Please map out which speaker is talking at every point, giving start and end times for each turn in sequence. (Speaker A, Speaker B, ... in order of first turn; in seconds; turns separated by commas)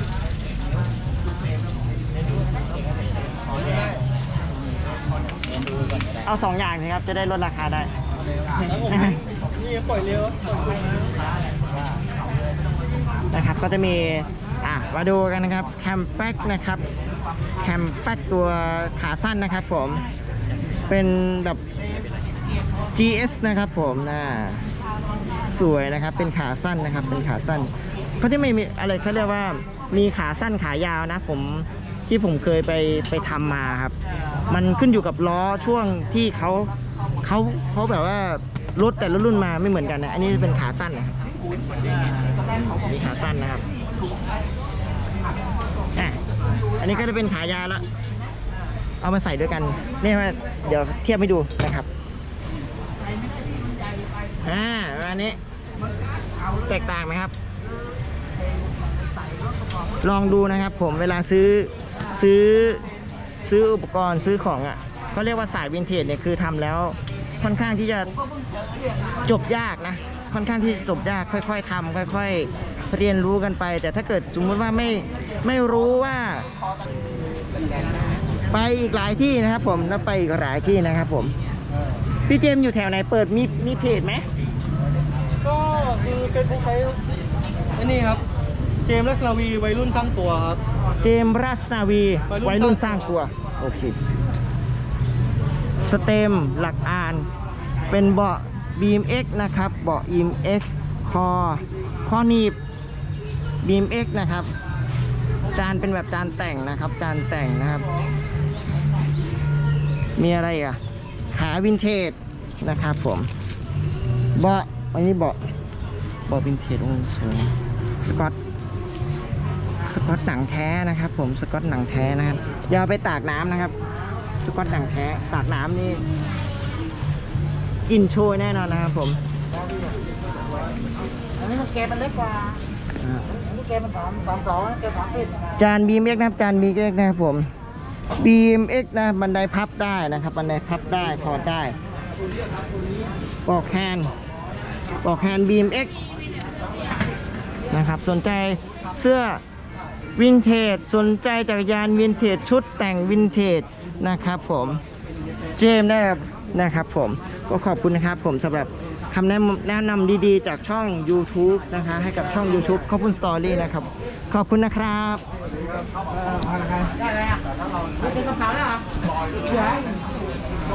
Speaker A: 3.5-4.0, Speaker B: 6.2-7.9, Speaker A: 8.7-11.2, Speaker B: 8.9-9.2, Speaker B: 13.3-16.8, Speaker B: 17.6-20.0, Speaker B: 20.9-21.6, Speaker B: 22.9-24.6, Speaker B: 25.5-33.9, Speaker B: 34.5-41.1, Speaker B: 42.8-43.6, Speaker B: 46.8-47.8, Speaker B: 49.0-51.9, Speaker B: 54.4-55.4, Speaker B: 56.6-57.3, Speaker B: 60.0-62.9, Speaker B: 63.4-68.1, Speaker B: 69.2-76.5, Speaker B: 78.5-81.3, Speaker B: 82.3-84.2, Speaker A: 85.4-87.0, Speaker A: 87.8-88.2, Speaker A: 88.8-90.6, Speaker B: 91.0-94.0, Speaker A: 92.3-93.1, Speaker B: 95.8-97.3, Speaker B: 97.9-102.5, Speaker B: 103.6-104.5, Speaker B: 105.5-107.8, Speaker B: 110.2-110.8, Speaker B: 111.3-113.3, Speaker B: 114.4-115.4, Speaker B: 116.3-118.3, Speaker B: 119.8-123.7, Speaker B: 124.4-126.0, Speaker B: 127.8-129.2, Speaker C: 131.4-132.6, Speaker B: 133.0-133.4, Speaker C: 133.4-135.4, Speaker B: 135.6-137.5, Speaker B: 138.2-141.8, Speaker B: 143.4-144.1, Speaker B: 145.0-145.9, Speaker B: 147.7-149.4, Speaker B: 150.2-154.8, Speaker B: 155.6-165.2, Speaker C: 166.7-167.3, Speaker C: 168.0-168.8, Speaker C: 169.5-169.9